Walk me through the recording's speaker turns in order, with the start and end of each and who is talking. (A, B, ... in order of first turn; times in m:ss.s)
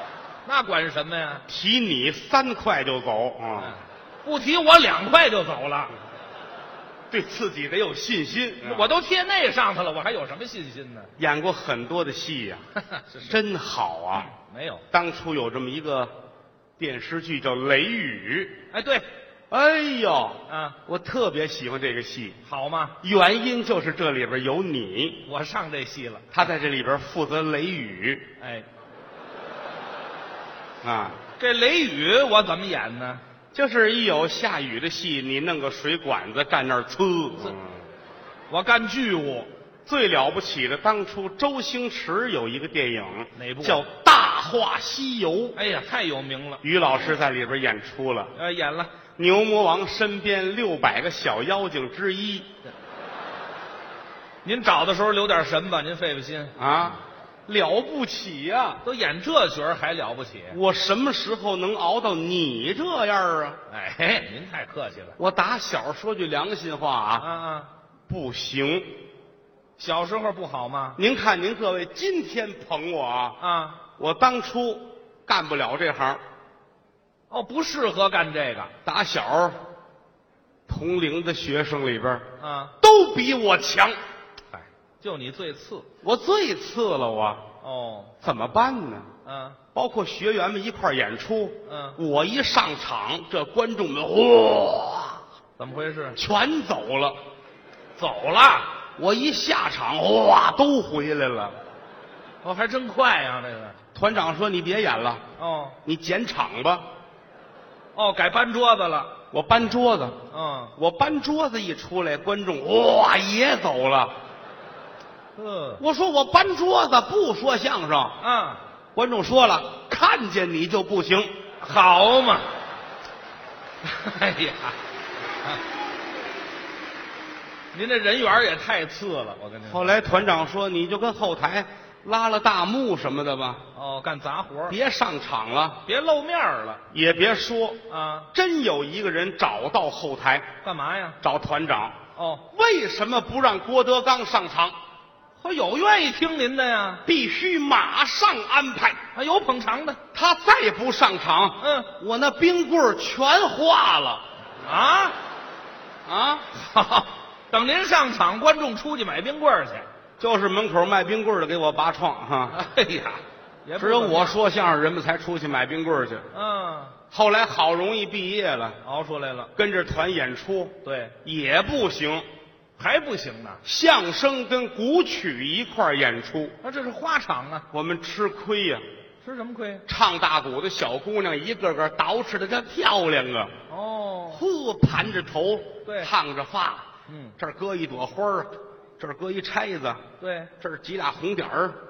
0:00.4-0:01.4 A
0:01.5-0:03.8 B
0:03.6-0:05.9 A
0:07.1-0:09.0 B
0:08.6-0:11.1 A
0:11.2-0:12.7 B
0:13.0-0:13.3 A
0:13.2-0:14.3 B
0:14.4-0:14.8 A
0:14.9-0:16.1 B
0:16.8-0:18.6 B
0:18.7-0:19.1 A
0:19.5-0:22.4 B
0:20.5-0:20.8 A
0:22.4-0:23.0 A
0:23.0-0:25.3 B
0:25.3-0:26.3 A
0:26.3-0:28.3 B
0:28.4-0:28.7 A
0:30.8-0:31.2 B
0:31.4-0:33.2 A
0:33.5-0:37.8 B
0:38.5-0:39.5 A
0:39.9-0:45.6 B
0:43.4-0:43.8 A
0:45.6-0:46.6 A
0:46.6-0:48.3 B
0:48.4-0:48.9 A
0:49.2-0:52.5 B
0:54.4-0:56.5 A
0:56.6-0:58.8 B
0:58.8-1:00.6 A
1:00.5-1:03.6 B
1:03.7-1:05.2 A
1:05.2-1:07.3 B
1:07.2-1:07.7 A
1:08.1-1:08.9 B
1:09.8-1:11.0 A
1:11.0-1:13.4 B
1:13.4-1:13.8 A
1:14.0-1:16.2 B
1:17.3-1:18.7 A
1:18.8-1:19.6 B
1:20.7-1:22.3 B
1:22.4-1:22.7 A
1:22.8-1:24.0 B
1:24.5-1:25.9 A
1:26.0-1:27.5 B
1:27.6-1:28.1 A
1:28.2-1:29.1 B
1:29.2-1:29.6 A
1:29.7-1:35.2 B
1:31.7-1:32.0 A
1:35.6-1:36.2 A
1:36.2-1:37.2 B
1:38.0-1:38.7 A
1:39.0-1:41.6 B
1:42.4-1:43.8 A
1:44.0-1:45.2 B
1:45.4-1:45.8 A
1:45.8-1:46.9 B
1:48.0-1:49.1 A
1:49.3-1:50.2 B
1:50.3-1:50.7 A
1:50.8-1:54.2 B
1:55.4-1:55.8 A
1:55.8-1:58.2 B
1:58.2-1:58.6 A
1:59.0-2:01.3 B
2:01.6-2:02.5 A
2:03.8-2:04.8 A
2:07.7-2:10.2 A
2:09.7-2:13.6 B
2:13.7-2:14.8 A
2:14.7-2:15.8 B
2:15.8-2:16.8 A
2:16.9-2:17.8 B
2:17.9-2:18.3 A
2:18.3-2:20.5 B
2:20.6-2:21.2 A
2:21.2-2:22.0 B
2:22.2-2:22.4 A
2:22.5-2:24.8 B
2:25.4-2:27.0 A
2:27.0-2:29.0 B
2:29.2-2:30.0 A
2:30.1-2:34.2 B
2:31.6-2:31.9 A
2:34.6-2:35.2 A
2:36.1-2:36.5 B
2:36.5-2:39.9 A
2:40.2-2:42.6 B
2:42.5-2:44.4 A
2:43.8-2:46.3 B
2:46.3-2:47.0 A
2:47.1-2:48.8 B
2:48.8-2:49.5 A
2:49.6-2:52.3 B
2:50.8-2:51.2 A
2:52.8-2:53.6 A
2:53.6-2:56.6 B
2:56.6-2:57.7 A
2:57.7-2:58.8 B
2:59.2-2:59.8 A
2:59.9-3:03.5 B
3:03.7-3:04.4 A
3:04.3-3:06.9 B
3:05.8-3:06.1 A
3:07.1-3:07.4 A
3:07.4-3:10.0 B
3:10.2-3:10.5 A
3:10.6-3:11.8 B